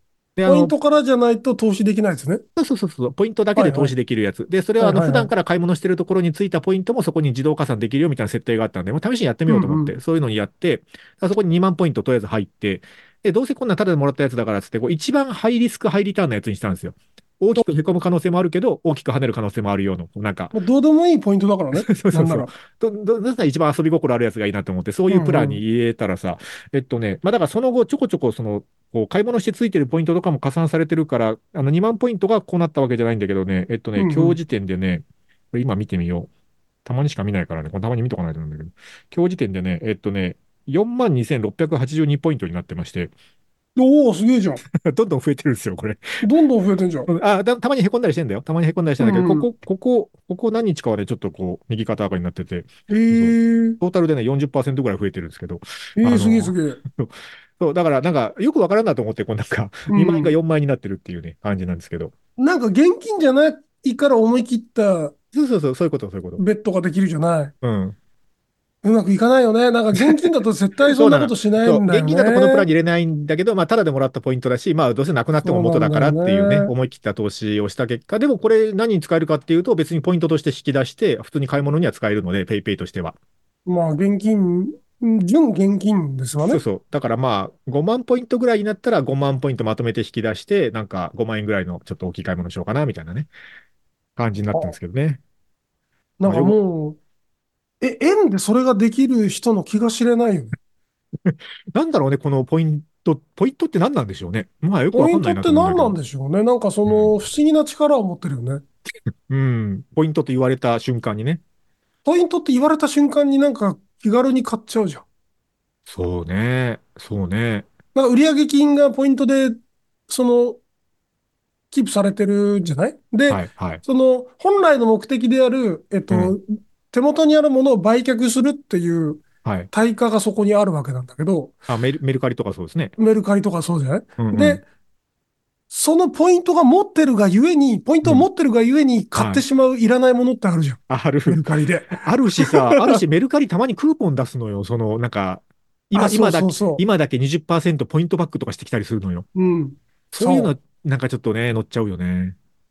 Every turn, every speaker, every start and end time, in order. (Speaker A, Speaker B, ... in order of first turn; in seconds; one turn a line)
Speaker A: 0.4-0.7
Speaker B: 0.5-2.4
Speaker A: 2.5-20.5
Speaker B: 3.5-3.9
Speaker B: 4.8-5.3
Speaker B: 9.5-9.9
Speaker B: 20.5-22.5
Speaker A: 21.7-36.3
Speaker B: 25.1-25.6
Speaker B: 34.0-34.4
Speaker A: 36.8-43.1
Speaker B: 43.8-44.6
Speaker A: 44.7-46.0
Speaker B: 46.2-47.1
Speaker A: 47.1-62.1
Speaker B: 49.0-49.5
Speaker B: 52.9-53.8
Speaker B: 56.0-56.8
Speaker B: 59.9-60.3
Speaker B: 62.4-65.1
Speaker A: 65.3-66.4
Speaker B: 66.4-67.5
Speaker A: 67.6-68.0
Speaker B: 68.8-72.7
Speaker A: 70.0-70.3
Speaker A: 70.9-83.2
Speaker B: 75.4-76.7
Speaker B: 83.7-86.6
Speaker A: 86.4-93.3
Speaker A: 94.2-95.2
Speaker B: 96.2-97.0
Speaker A: 96.2-96.6
Speaker B: 97.8-100.5
Speaker A: 101.2-106.0
Speaker B: 104.9-108.6
Speaker A: 106.8-107.1
Speaker A: 109.3-111.4
Speaker B: 112.0-115.0
Speaker A: 115.9-117.7
Speaker B: 117.9-120.6
Speaker B: 121.7-131.5
Speaker A: 123.3-123.8
Speaker A: 126.1-126.4
Speaker A: 129.4-129.7
Speaker A: 131.7-132.9
Speaker B: 133.0-134.6
Speaker A: 134.2-134.6
Speaker B: 135.7-143.0
Speaker A: 139.1-139.4
Speaker A: 140.9-149.2
Speaker B: 145.9-146.8
Speaker B: 149.3-150.5
Speaker A: 150.1-152.3